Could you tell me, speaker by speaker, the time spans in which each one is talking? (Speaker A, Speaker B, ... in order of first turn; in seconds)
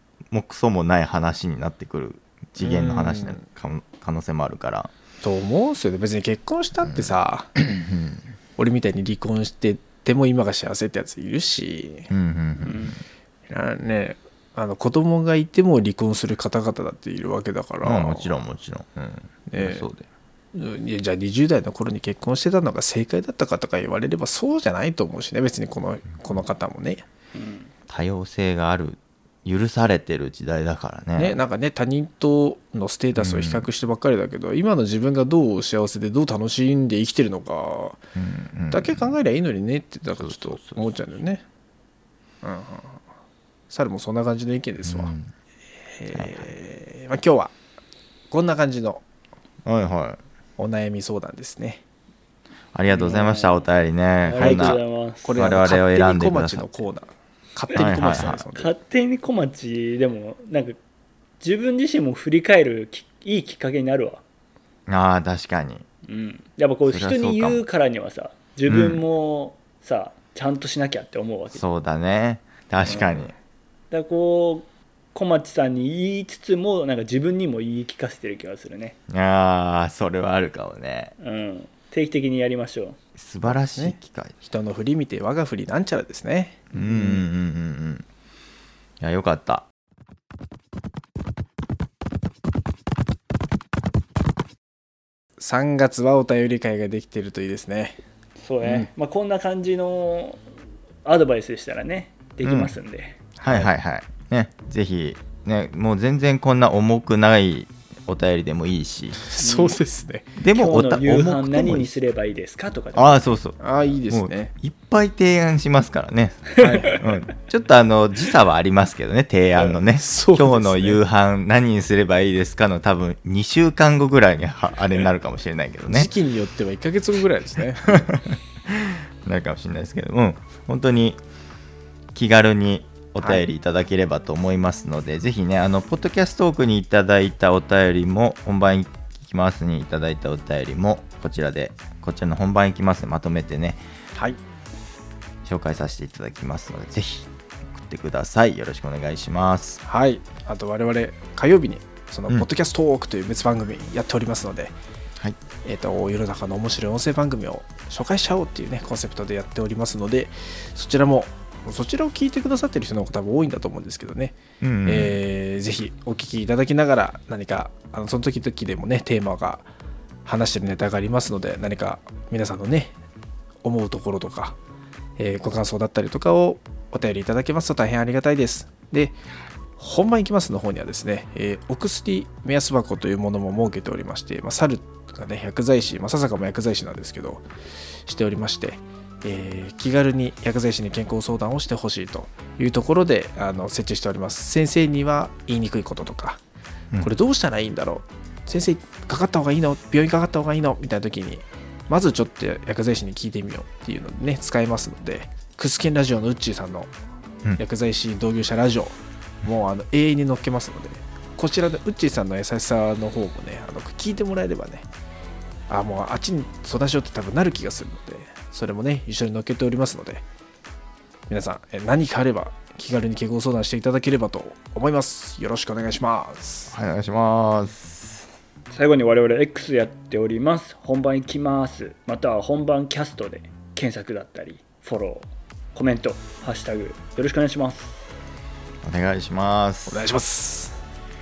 Speaker A: 0.3-4.9, 6.9-8.2, 12.1-13.0, 17.8-20.1, 27.9-31.4, 33.1-33.7, 38.2-39.1, 40.2-41.1, 44.8-45.3, 46.1-46.5, 49.6-50.2, 52.7-54.8, 55.4-56.7, 57.7-58.5, 64.9-65.8, 66.9-67.6, 68.7-69.0, 71.5-73.3, 79.1-81.1, 83.2-84.3, 86.7-88.0, 89.0-89.7, 102.4-102.7, 103.4-109.2, 110.4-111.9, 113.0-126.1, 127.9-131.2, 132.1-143.8, 145.4-149.8, 164.6-165.2, 226.7-228.3, 238.8-240.1
Speaker B: 2.6-3.5, 5.2-7.6, 8.6-12.1, 13.5-18.4, 19.5-19.9, 20.5-27.0, 31.2-38.0, 38.7-41.4, 42.4-43.0, 43.7-45.1, 45.9-47.5, 48.3-49.0, 50.6-51.8, 54.4-58.8, 72.8-73.3, 83.5-87.3, 95.4-98.0, 98.6-98.9, 103.4-103.7, 109.2-110.3, 113.6-114.5, 116.6-117.0, 119.6-121.0, 125.9-128.1, 133.2-133.5, 144.2-144.4, 149.8-154.8, 155.6-169.7, 170.2-172.9, 173.6-174.6, 175.2-179.2, 179.8-187.4, 188.1-196.4, 197.0-206.9, 207.6-214.9, 215.7-220.2, 221.3-226.7, 239.9-240.8
Speaker C: 12.6-13.0, 27.4-27.7, 52.9-53.6, 54.2-55.5, 58.3-60.8, 61.4-64.2, 66.1-71.6, 73.9-79.0, 81.2-83.0, 98.4-100.4, 101.0-103.2, 109.4-109.8, 110.5-113.4, 228.7-238.1